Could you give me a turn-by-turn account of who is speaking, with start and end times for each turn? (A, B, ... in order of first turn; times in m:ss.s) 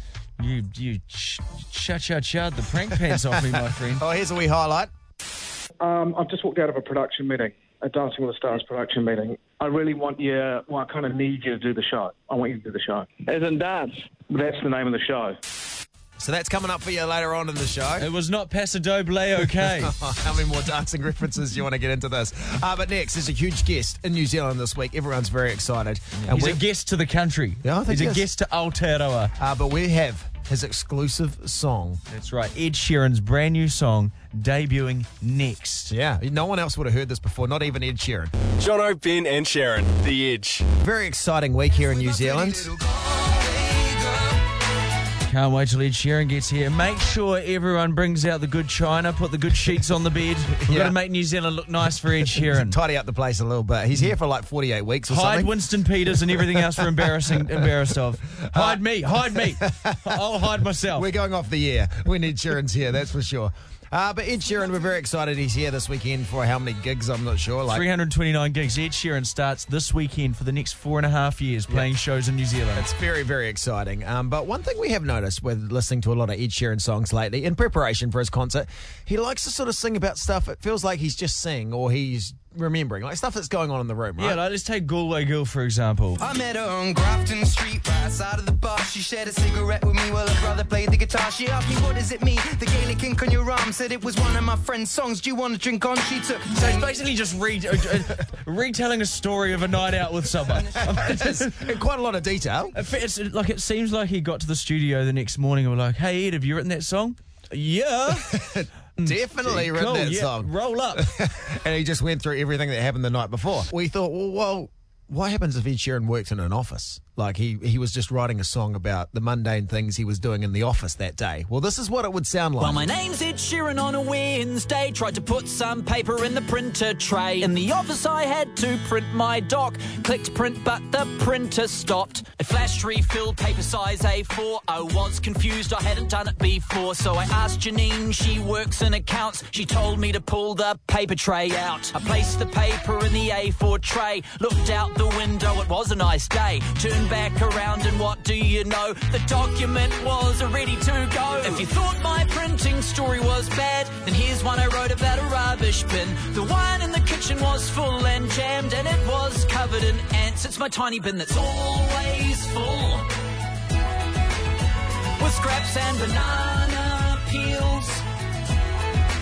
0:00.4-0:04.0 A
0:03.1-0:04.9 B
0:05.8-0:13.1 C
0:14.3-0:15.4 C
0:16.2-0:18.1 B
0:18.0-0:19.9 A
0:19.8-0:26.6 B
0:26.2-0:29.3 A
0:27.6-0:28.3 B
0:29.4-0:32.0 B
0:32.1-0:35.9 A
0:35.9-0:38.3 B
0:38.6-0:40.7 D
0:40.8-0:42.7 B
0:45.2-0:52.8 A
0:50.5-0:51.0 B
0:52.2-0:55.6 B
0:55.1-1:01.1 A
0:56.3-0:57.6 B
0:58.3-1:00.2 B
1:00.9-1:07.9 B
1:07.7-1:12.9 A
1:12.8-1:24.4 B
1:24.2-1:26.2 A
1:26.2-1:36.9 E
1:36.5-1:41.6 A
1:40.8-1:42.8 B
1:42.7-1:48.4 A
1:48.1-2:02.9 B
1:49.0-1:51.1 A
2:02.6-2:43.1 F
2:45.2-2:48.1 F